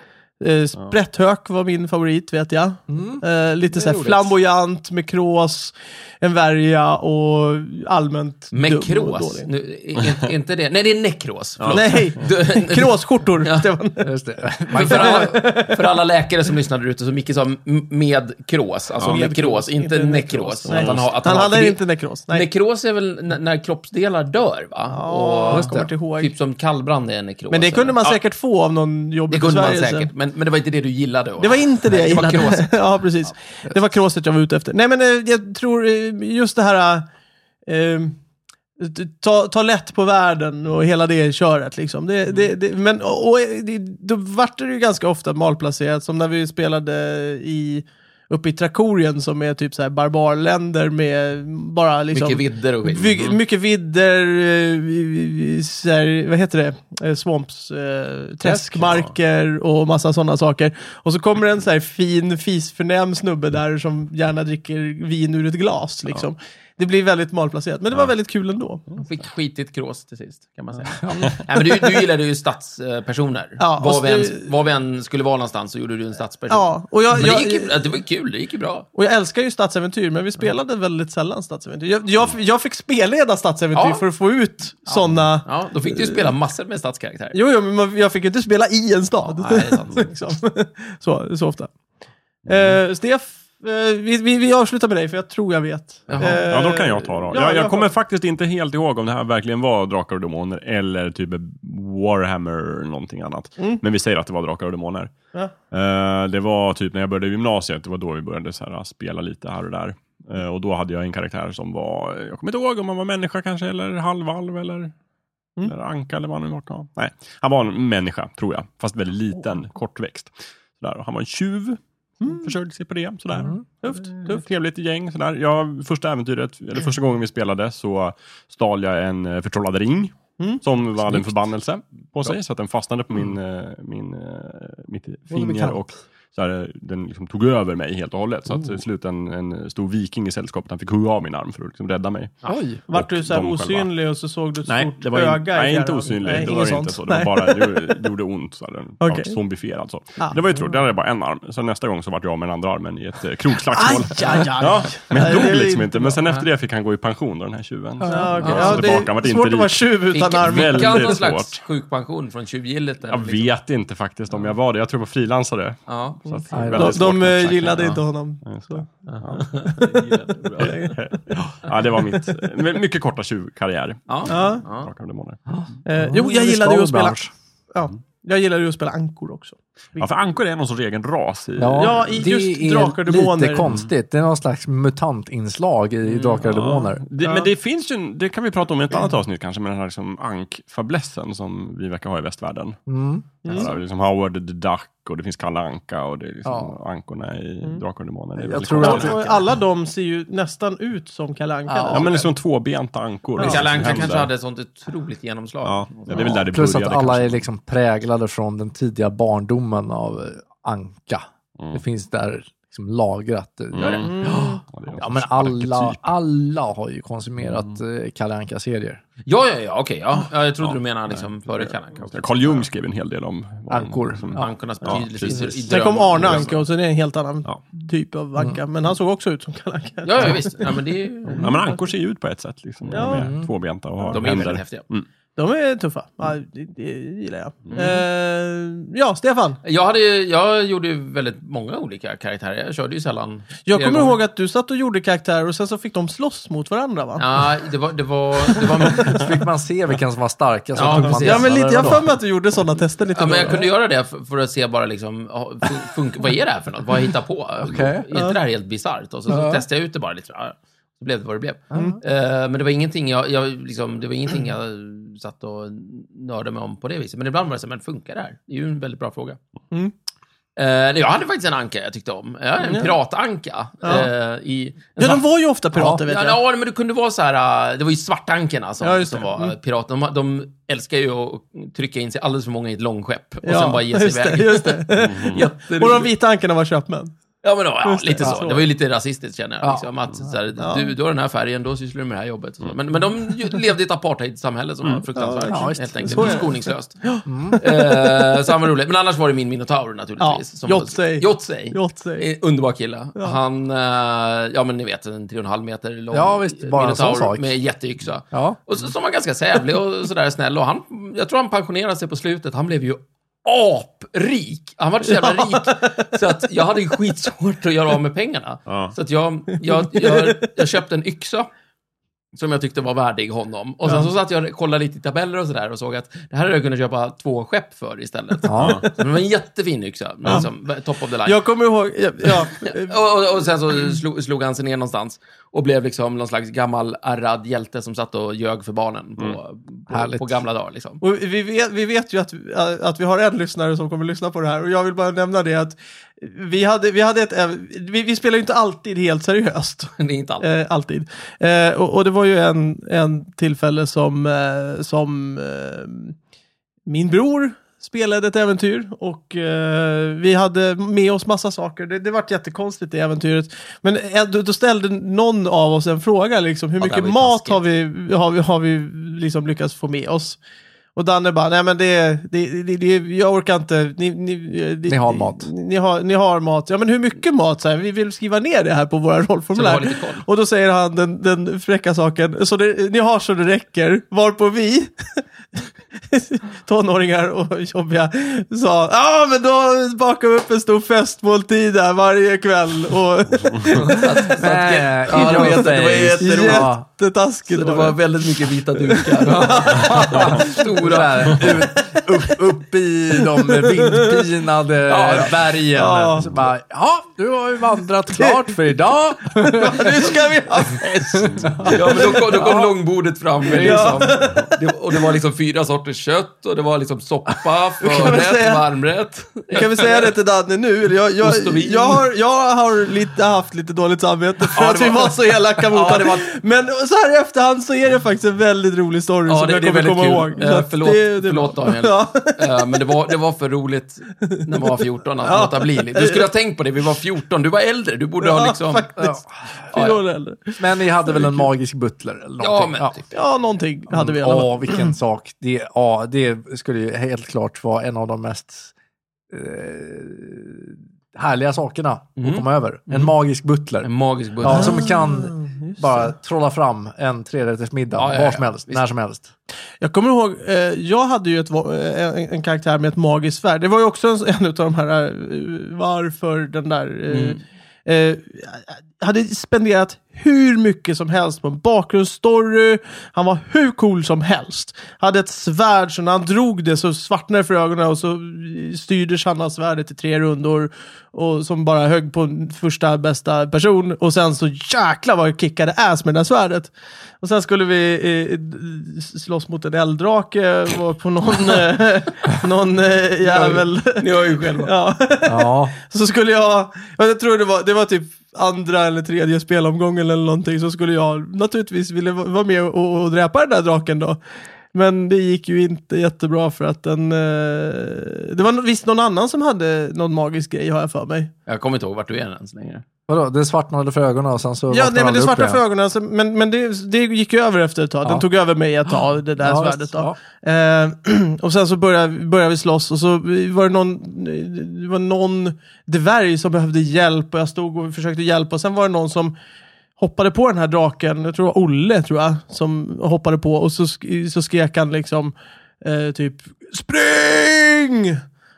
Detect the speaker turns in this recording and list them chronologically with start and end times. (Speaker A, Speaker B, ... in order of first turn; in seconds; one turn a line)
Speaker A: 0.4-9.5
Speaker B: 2.9-4.4
Speaker C: 8.5-13.7
Speaker D: 11.6-12.2
Speaker A: 11.7-14.1
Speaker B: 14.0-15.4
Speaker C: 14.7-28.2
Speaker A: 14.8-15.9
Speaker A: 19.1-22.5
Speaker D: 20.7-21.2
Speaker A: 24.9-26.3
Speaker B: 25.5-25.9
Speaker A: 27.5-30.1
Speaker C: 29.3-32.8
Speaker A: 31.4-37.1
Speaker A: 37.7-38.2
Speaker A: 38.8-68.9
Speaker C: 52.1-53.2
Speaker B: 58.4-59.0
Speaker C: 69.0-78.9
Speaker B: 71.0-71.3
Speaker A: 71.8-72.1
Speaker A: 73.6-74.5
Speaker A: 76.5-77.9
Speaker A: 78.9-86.3
Speaker C: 83.7-84.0
Speaker C: 85.4-87.4
Speaker A: 87.3-91.7
Speaker C: 89.2-90.4
Speaker D: 92.5-92.8
Speaker A: 92.5-97.9
Speaker C: 96.1-96.4
Speaker D: 96.2-105.1
Speaker D: 105.7-114.9
Speaker D: 115.6-142.4
Speaker A: 122.2-122.5
Speaker A: 123.8-124.4
Speaker B: 135.3-135.8
Speaker B: 142.5-142.8
Speaker A: 142.9-148.0
Speaker D: 142.9-143.9
Speaker D: 144.7-161.6
Speaker A: 149.0-149.4
Speaker A: 150.2-150.7
Speaker A: 153.7-156.2
Speaker B: 158.0-158.7
Speaker A: 158.1-161.2
Speaker C: 158.4-158.9
Speaker C: 160.1-163.5
Speaker D: 163.1-175.4
Speaker C: 165.9-166.4
Speaker B: 166.5-167.1
Speaker A: 166.8-168.9
Speaker C: 169.1-170.8
Speaker A: 170.6-171.0
Speaker C: 174.1-174.9
Speaker A: 174.3-174.7
Speaker A: 175.9-177.2
Speaker B: 176.0-177.3
Speaker A: 177.7-180.1
Speaker D: 180.0-182.2
Speaker B: 181.6-187.1
Speaker A: 181.8-183.7
Speaker D: 186.1-192.8
Speaker A: 187.2-187.5
Speaker B: 192.9-193.7
Speaker D: 193.4-199.2
Speaker B: 196.4-196.8
Speaker B: 198.4-199.4
Speaker A: 198.8-202.3
Speaker C: 198.8-199.2
Speaker B: 201.7-202.1
Speaker D: 201.9-204.3
Speaker A: 203.4-204.1
Speaker C: 203.4-206.4
Speaker D: 205.6-207.4
Speaker B: 206.1-214.2
Speaker D: 213.7-216.0
Speaker C: 213.8-214.6
Speaker A: 213.8-214.6
Speaker B: 215.0-219.0
Speaker D: 217.4-217.8
Speaker C: 219.3-222.7
Speaker D: 222.1-226.6
Speaker B: 223.7-225.5
Speaker C: 224.4-226.6
Speaker A: 225.7-230.8
Speaker C: 230.0-231.6
Speaker D: 231.3-235.1
Speaker A: 231.3-231.8
Speaker A: 232.9-233.3
Speaker B: 233.0-233.5
Speaker C: 234.1-234.8
Speaker A: 235.4-239.6
Speaker C: 237.7-238.0
Speaker C: 239.6-244.2
Speaker A: 243.7-247.2
Speaker C: 247.2-249.3
Speaker B: 248.9-252.2
Speaker C: 250.8-252.0
Speaker A: 250.8-253.7
Speaker C: 253.1-269.4
Speaker B: 257.6-258.1
Speaker B: 259.3-259.6
Speaker B: 261.7-262.0
Speaker C: 270.6-286.1
Speaker A: 272.6-273.0
Speaker A: 273.8-274.1
Speaker A: 275.0-276.4
Speaker A: 278.8-279.6
Speaker A: 283.4-287.2
Speaker D: 285.0-285.4
Speaker C: 287.4-321.5
Speaker A: 287.8-288.6
Speaker B: 289.6-289.9
Speaker A: 290.6-290.9
Speaker A: 295.1-298.4
Speaker B: 295.4-296.5
Speaker B: 297.3-297.6
Speaker A: 300.2-302.3
Speaker B: 306.1-307.5
Speaker B: 308.3-308.6
Speaker A: 315.2-315.9
Speaker D: 318.7-318.9
Speaker A: 319.8-320.5
Speaker C: 322.4-331.4
Speaker B: 328.4-328.9
Speaker D: 328.6-328.9
Speaker A: 331.2-333.1
Speaker C: 332.5-341.0
Speaker B: 339.9-340.4
Speaker A: 341.0-356.2
Speaker C: 350.0-350.5
Speaker A: 356.9-370.4
Speaker C: 366.8-367.6
Speaker A: 371.0-385.2
Speaker B: 374.9-375.5
Speaker C: 379.5-380.2
Speaker A: 386.0-394.0
Speaker C: 393.7-396.7
Speaker B: 394.2-396.9
Speaker A: 395.1-395.6
Speaker A: 396.2-400.5
Speaker C: 397.5-401.5
Speaker B: 399.6-410.2
Speaker A: 401.4-401.9
Speaker A: 403.4-404.1
Speaker C: 404.9-405.9
Speaker A: 405.8-406.3
Speaker A: 408.2-408.5
Speaker A: 409.4-411.3
Speaker B: 410.8-412.8
Speaker D: 411.3-411.6
Speaker C: 411.6-420.1
Speaker B: 413.5-414.1
Speaker A: 413.5-414.6
Speaker A: 417.8-418.7
Speaker A: 419.5-432.8
Speaker C: 421.2-422.1
Speaker C: 424.5-426.3
Speaker C: 429.3-438.9
Speaker A: 434.7-436.3
Speaker A: 438.2-439.2
Speaker B: 439.0-439.8
Speaker A: 439.7-441.5
Speaker B: 440.6-443.0
Speaker C: 442.4-443.0
Speaker A: 443.1-444.9
Speaker B: 443.9-448.7
Speaker B: 449.3-459.3
Speaker C: 452.2-453.1
Speaker C: 453.8-454.9
Speaker A: 454.5-456.1
Speaker C: 457.9-458.8
Speaker A: 459.8-504.2
Speaker C: 467.1-467.4
Speaker C: 493.2-494.7
Speaker B: 495.2-495.8
Speaker A: 504.7-511.3
Speaker C: 511.5-512.8
Speaker B: 513.1-515.6
Speaker A: 514.7-529.3
Speaker B: 519.4-520.2
Speaker A: 530.0-538.2